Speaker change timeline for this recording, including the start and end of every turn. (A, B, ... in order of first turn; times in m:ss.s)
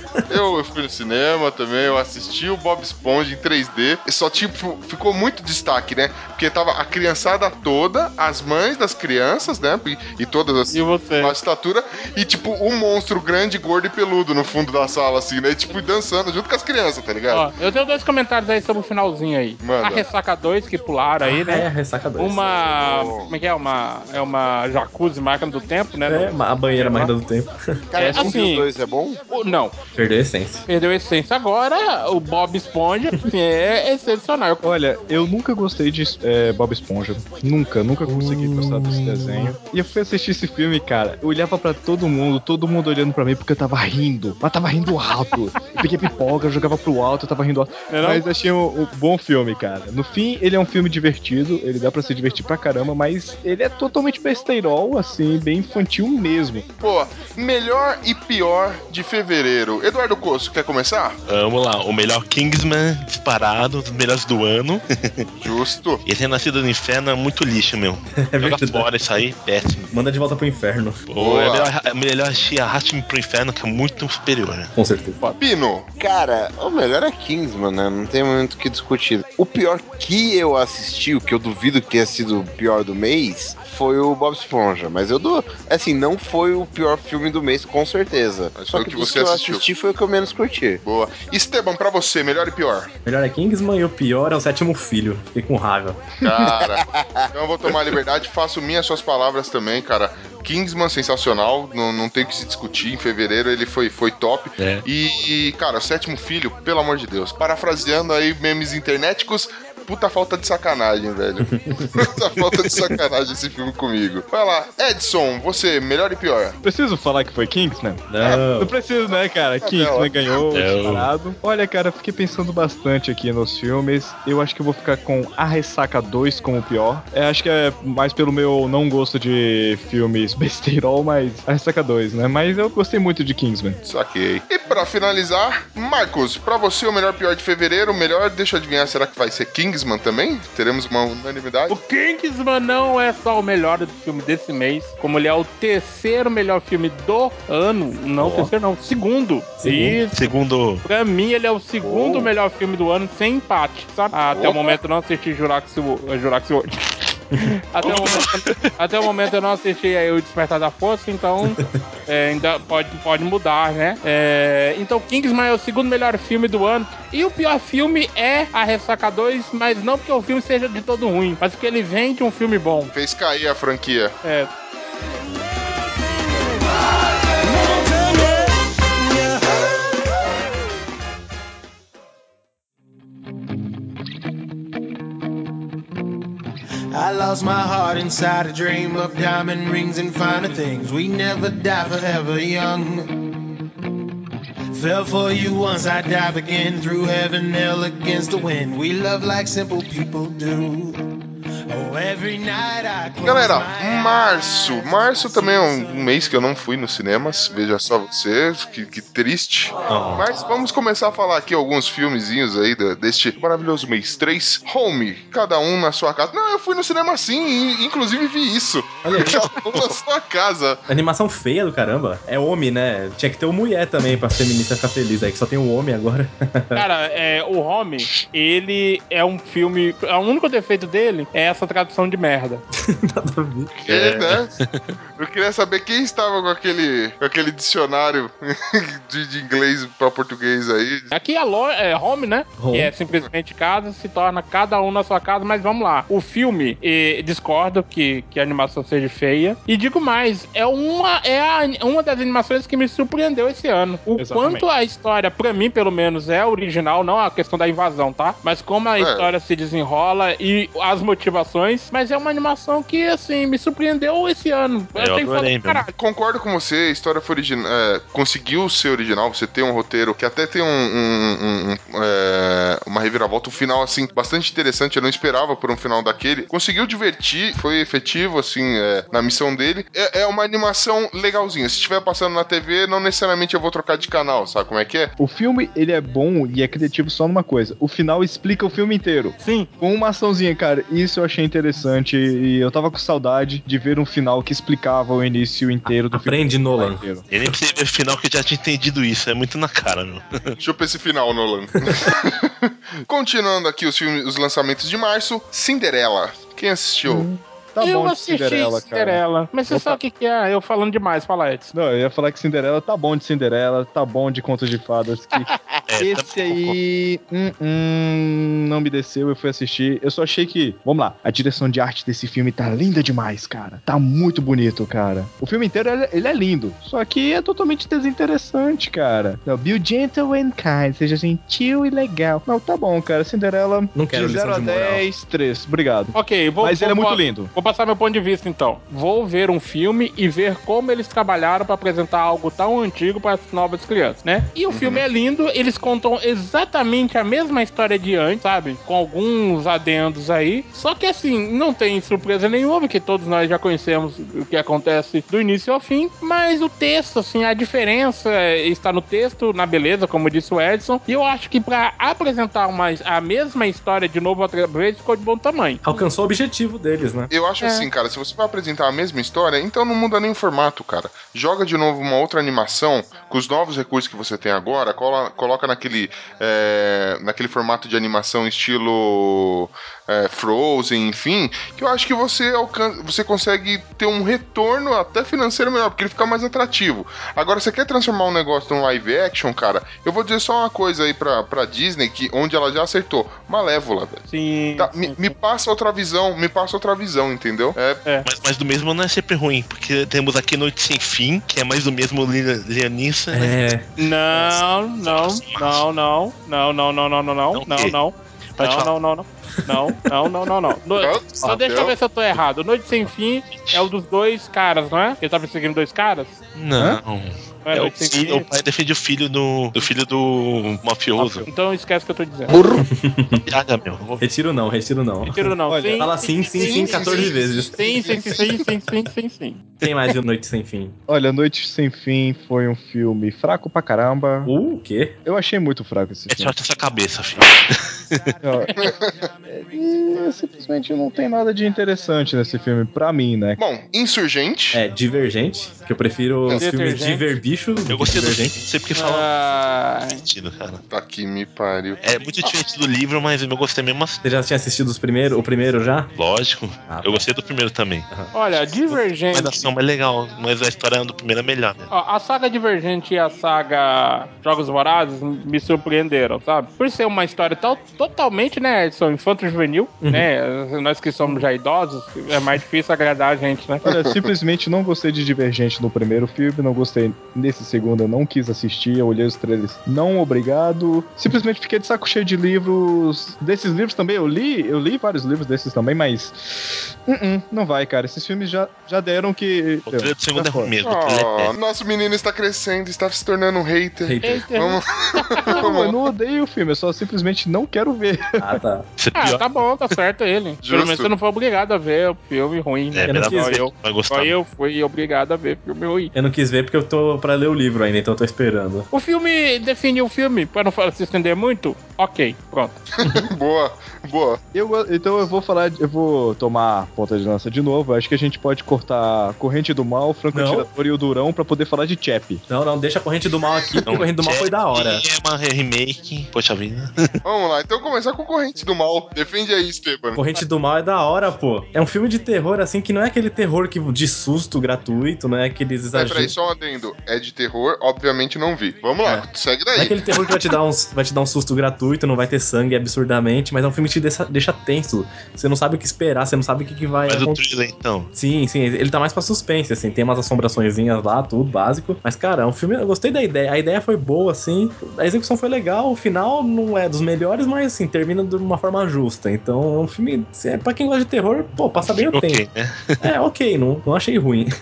0:00.3-0:17.5 A
0:10.7-0:11.4 B
0:17.3-0:21.7 B
0:19.6-0:20.0 A
0:21.2-0:22.4 C
0:22.2-0:27.1 B
0:22.7-0:23.3 D
0:26.0-0:27.6 C
0:27.9-0:29.2 D
0:28.0-0:28.7 B
0:29.3-0:29.7 B
0:29.9-0:30.6 C
0:30.7-0:34.6 B
0:34.6-0:56.6 E
0:38.0-0:39.6 C
0:47.9-0:48.2 B
0:56.8-1:01.2 A
1:01.3-1:05.3 F
1:05.4-1:06.0 A
1:06.0-1:09.9 F
1:08.2-1:08.9 C
1:09.9-1:11.0 C
1:11.1-1:14.7 F
1:11.2-1:11.7 A
1:14.7-1:15.2 C
1:15.4-1:15.9 A
1:16.0-1:30.8 D
1:28.5-1:29.6 A
1:30.8-1:32.9 A
1:33.0-1:36.0 C
1:36.2-1:56.6 A
1:36.6-1:37.7 D
1:44.6-1:44.8 F
1:51.5-1:52.0 C
1:56.6-2:13.8 E
1:58.1-1:58.7 C
1:58.2-1:58.5 A
1:59.6-2:00.2 A
2:00.5-2:01.1 F
2:13.8-2:21.8 A
2:21.7-2:30.2 B
2:28.2-2:28.5 C
2:29.6-2:30.0 C
2:30.1-2:30.8 F
2:30.8-2:52.9 B
2:31.8-2:32.1 C
2:37.8-2:38.7 F
2:41.4-2:41.8 C
2:52.9-2:54.1 A
2:54.2-2:54.5 B
2:57.3-3:00.0 G
3:06.9-3:13.4 G
3:14.7-3:21.0 G
3:21.7-3:26.3 G
3:23.2-3:40.8 A
3:29.9-3:30.2 F
3:39.0-3:39.4 C
3:40.9-3:46.8 C
3:46.7-3:52.6 B
3:52.8-3:53.7 C
3:53.8-3:54.8 F
3:53.9-3:54.5 A
3:55.2-4:01.1 A
4:01.1-4:25.9 B
4:02.6-4:02.9 C
4:14.2-4:14.6 E
4:19.0-4:19.3 A
4:25.0-4:25.8 F
4:25.9-4:45.1 A
4:45.2-4:57.2 E
4:49.4-4:49.7 B
4:55.9-4:57.0 C
4:57.3-5:00.6 F
5:00.6-5:07.3 A
5:07.0-5:10.0 E
5:07.8-5:11.7 B
5:11.7-5:37.5 E
5:15.9-5:16.8 F
5:33.9-5:35.0 C
5:36.1-6:05.8 B
5:44.7-5:45.0 A
6:05.8-6:07.3 C
6:07.3-6:38.0 A
6:07.6-6:07.9 B
6:34.3-6:35.3 B
6:38.2-6:43.6 F
6:43.3-6:43.8 C
6:44.0-6:56.4 B
6:44.3-6:45.8 F
6:47.5-6:48.0 F
6:48.6-6:48.9 F
6:51.0-6:51.9 A
6:53.5-6:53.8 F
6:56.5-7:01.4 F
6:57.6-6:58.5 B
7:01.2-7:01.4 E
7:01.4-7:02.6 B
7:02.8-7:03.4 C
7:03.4-7:04.2 F
7:04.2-7:08.4 C
7:05.2-7:09.6 B
7:05.7-7:06.1 E
7:06.6-7:08.6 A
7:09.8-7:11.0 C
7:11.1-7:14.5 E
7:14.4-7:15.1 C
7:15.2-7:16.5 E
7:16.3-7:17.8 F
7:18.4-7:18.7 E
7:18.8-7:19.2 A
7:19.4-7:23.6 E
7:23.6-7:24.8 A
7:24.7-7:28.6 C
7:26.6-7:27.2 B
7:27.9-7:29.3 F
7:28.9-7:30.2 B
7:30.2-7:30.8 F
7:30.9-7:32.5 A
7:32.0-7:34.2 F
7:34.2-7:36.1 C
7:36.2-7:38.1 F
7:36.9-7:37.2 C
7:38.3-7:39.6 B
7:38.9-7:41.9 F
7:41.9-7:53.8 B
7:50.0-7:50.3 C
7:53.8-8:10.7 E
7:53.8-7:54.3 A
8:09.9-8:11.5 F
8:10.8-8:16.0 A
8:14.0-8:14.4 C
8:14.2-8:15.6 B
8:15.5-8:18.5 E
8:18.4-8:18.9 C
8:19.0-8:19.5 F
8:19.1-8:26.1 B
8:20.6-8:21.1 A
8:22.9-8:24.3 F
8:23.0-8:23.6 C
8:26.1-8:28.9 C
8:28.9-8:32.8 B
8:33.0-8:34.4 A
8:34.5-8:42.4 E
8:40.3-8:40.7 C
8:42.5-8:45.0 C
8:43.8-8:47.2 F
8:47.2-8:50.2 A
8:50.1-8:56.3 C
8:55.9-9:00.0 A
8:59.0-9:07.4 C
9:07.1-9:08.1 F
9:08.1-9:22.4 C
9:21.9-9:23.0 F
9:23.0-9:24.5 C